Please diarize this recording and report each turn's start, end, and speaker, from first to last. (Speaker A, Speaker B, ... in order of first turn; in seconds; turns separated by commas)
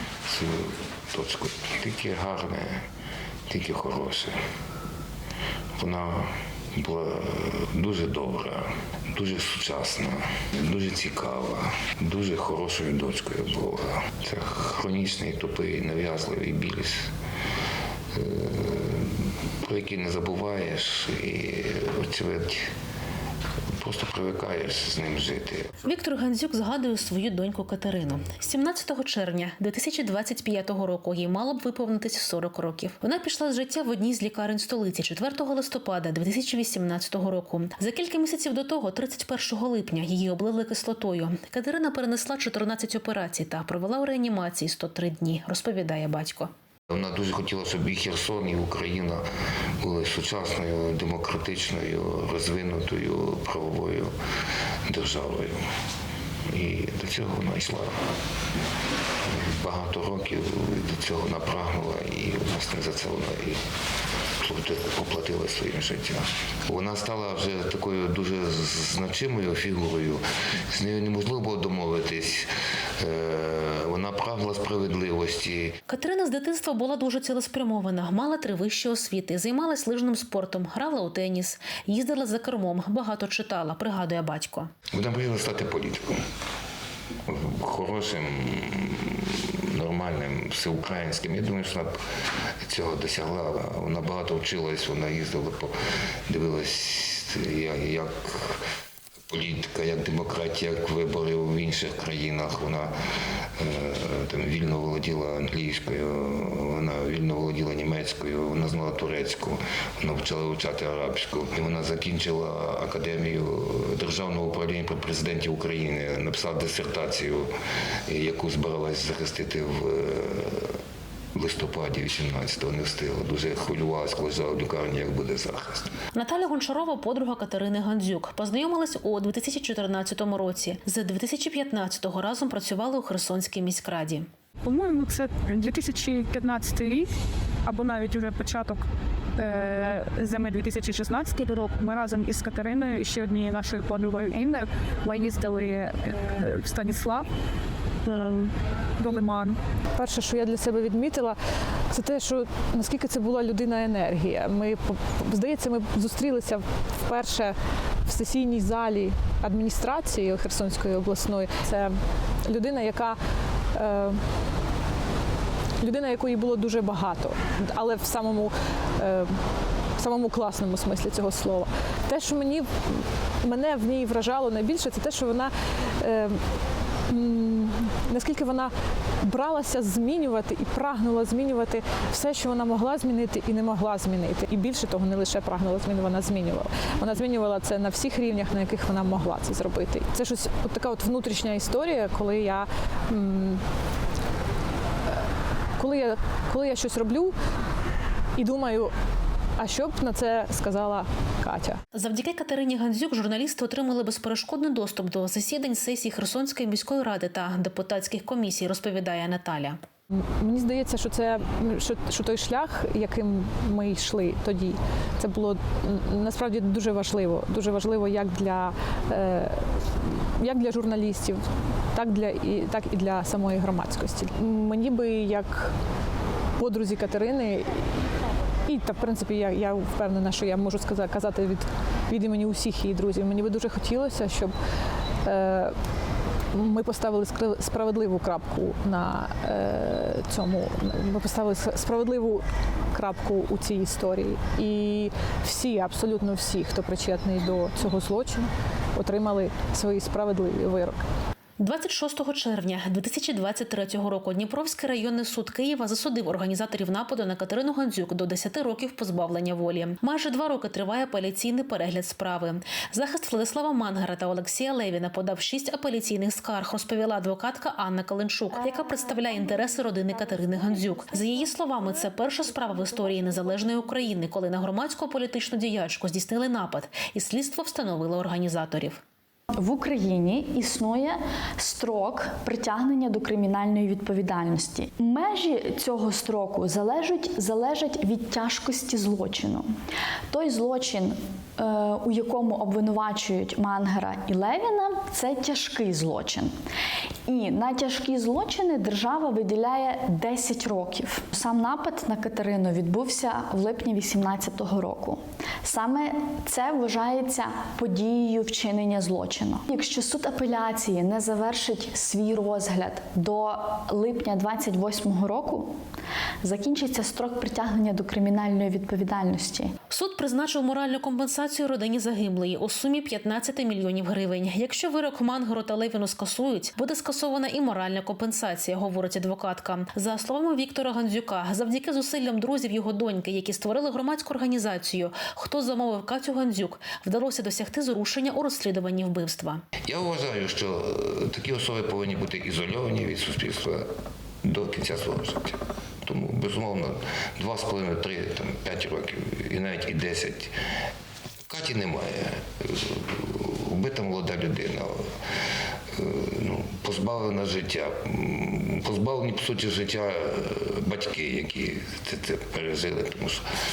Speaker A: 0.2-2.9, Speaker A: 3.5-4.4, Speaker A: 5.8-17.1, Speaker A: 18.1-19.1, Speaker A: 19.6-22.7, Speaker A: 23.8-25.7, Speaker B: 25.8-46.5, Speaker A: 46.9-49.2, Speaker A: 49.8-54.1, Speaker A: 54.9-55.6, Speaker A: 56.5-58.0, Speaker A: 59.3-63.6, Speaker A: 64.4-72.5, Speaker A: 73.0-75.8, Speaker B: 75.9-84.7, Speaker A: 84.9-86.2, Speaker A: 87.3-92.0, Speaker A: 92.7-95.7, Speaker A: 96.3-98.6, Speaker A: 99.3-102.9, Speaker A: 103.6-117.5, Speaker A: 118.1-120.8, Speaker A: 121.3-125.9, Speaker B: 126.1-134.3, Speaker C: 134.6-137.1, Speaker C: 137.7-147.3, Speaker C: 148.0-149.6, Speaker D: 149.9-151.4, Speaker D: 151.9-163.2, Speaker D: 163.7-164.2, Speaker D: 165.8-169.4, Speaker D: 170.0-176.4, Speaker D: 177.1-193.6, Speaker D: 195.8-197.3, Speaker D: 198.4-198.9, Speaker D: 199.6-201.8, Speaker B: 201.9-209.8, Speaker D: 210.1-225.8, Speaker D: 226.6-228.1, Speaker D: 228.7-234.5, Speaker D: 235.2-235.8, Speaker D: 236.5-251.1, Speaker B: 251.6-279.0, Speaker E: 279.6-289.7, Speaker E: 290.3-296.5, Speaker E: 297.3-315.7, Speaker E: 316.4-319.7, Speaker B: 319.9-339.6, Speaker A: 339.9-343.9, Speaker A: 344.4-350.5, Speaker A: 351.5-355.0, Speaker A: 355.9-363.4